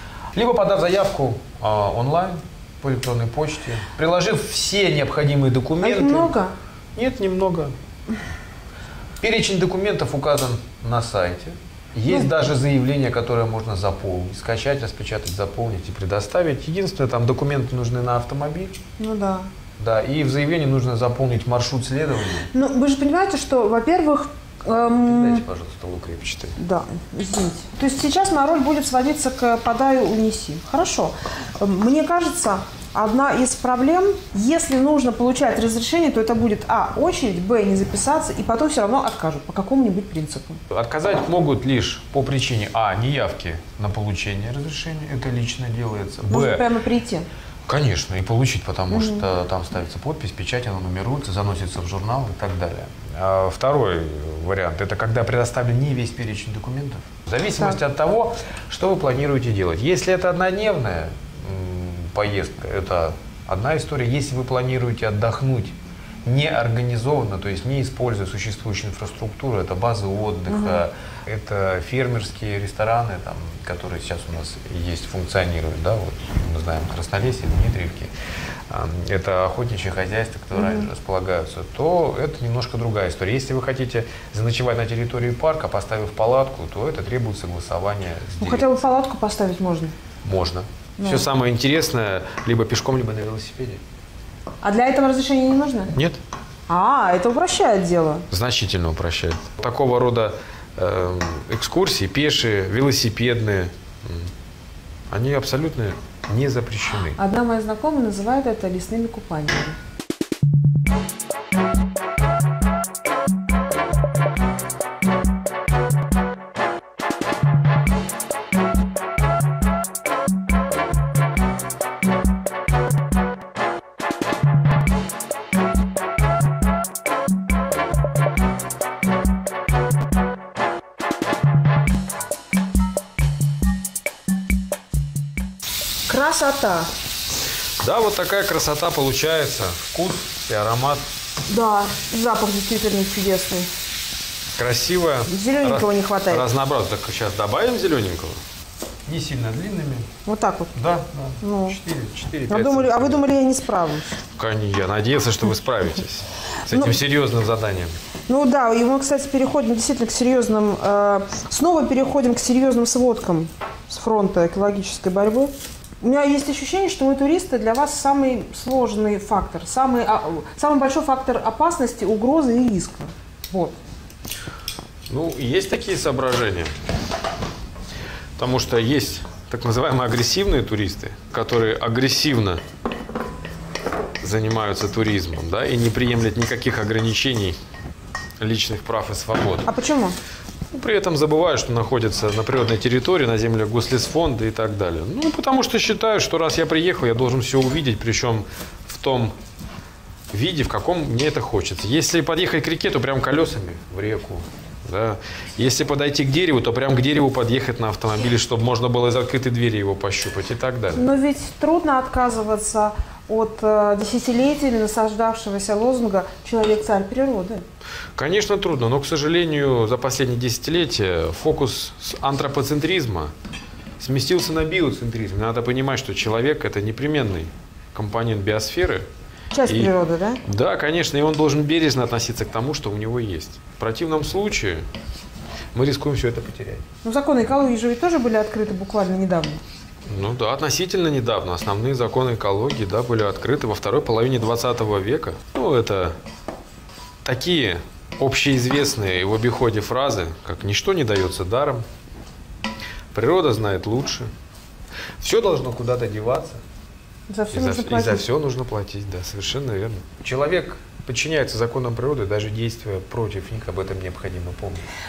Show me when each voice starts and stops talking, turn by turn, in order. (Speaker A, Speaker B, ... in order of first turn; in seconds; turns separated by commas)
Speaker A: 0.3-6.3, Speaker B: 5.8-6.5, Speaker A: 6.9-7.7, Speaker A: 9.2-18.8, Speaker B: 19.0-19.5, Speaker A: 19.8-22.5, Speaker B: 22.5-25.4, Speaker A: 25.0-26.6, Speaker B: 26.6-40.6, Speaker A: 40.7-46.6, Speaker B: 46.3-47.2, Speaker A: 47.7-78.1, Speaker B: 48.9-49.2, Speaker B: 70.5-70.8, Speaker A: 78.7-88.8, Speaker B: 80.5-80.9, Speaker B: 88.4-89.9, Speaker A: 90.2-93.8, Speaker B: 91.0-91.3, Speaker B: 94.6-95.9, Speaker A: 95.9-96.2, Speaker B: 96.7-98.2, Speaker A: 98.3-104.3, Speaker A: 105.1-107.2, Speaker B: 107.2-109.8, Speaker B: 136.1-136.9, Speaker A: 137.8-141.0, Speaker B: 141.5-143.7, Speaker A: 144.6-148.4, Speaker B: 145.3-146.4, Speaker A: 149.1-150.1, Speaker B: 150.2-150.7, Speaker A: 150.7-153.3, Speaker B: 151.4-151.8, Speaker B: 152.5-154.1, Speaker A: 154.3-157.9, Speaker B: 158.3-173.8, Speaker A: 175.1-176.7, Speaker A: 178.4-182.6, Speaker A: 184.2-187.6, Speaker A: 188.4-189.7, Speaker B: 189.6-190.1, Speaker A: 190.7-199.3, Speaker A: 200.3-211.0, Speaker B: 210.9-217.6, Speaker A: 218.2-223.3, Speaker A: 224.0-229.1, Speaker B: 229.5-230.4, Speaker A: 229.7-229.9, Speaker A: 230.4-234.8, Speaker A: 235.7-236.8, Speaker B: 237.0-239.6, Speaker A: 240.1-246.2, Speaker A: 247.2-251.8, Speaker A: 253.1-254.3, Speaker A: 255.2-256.6, Speaker B: 257.3-258.2, Speaker A: 257.5-264.8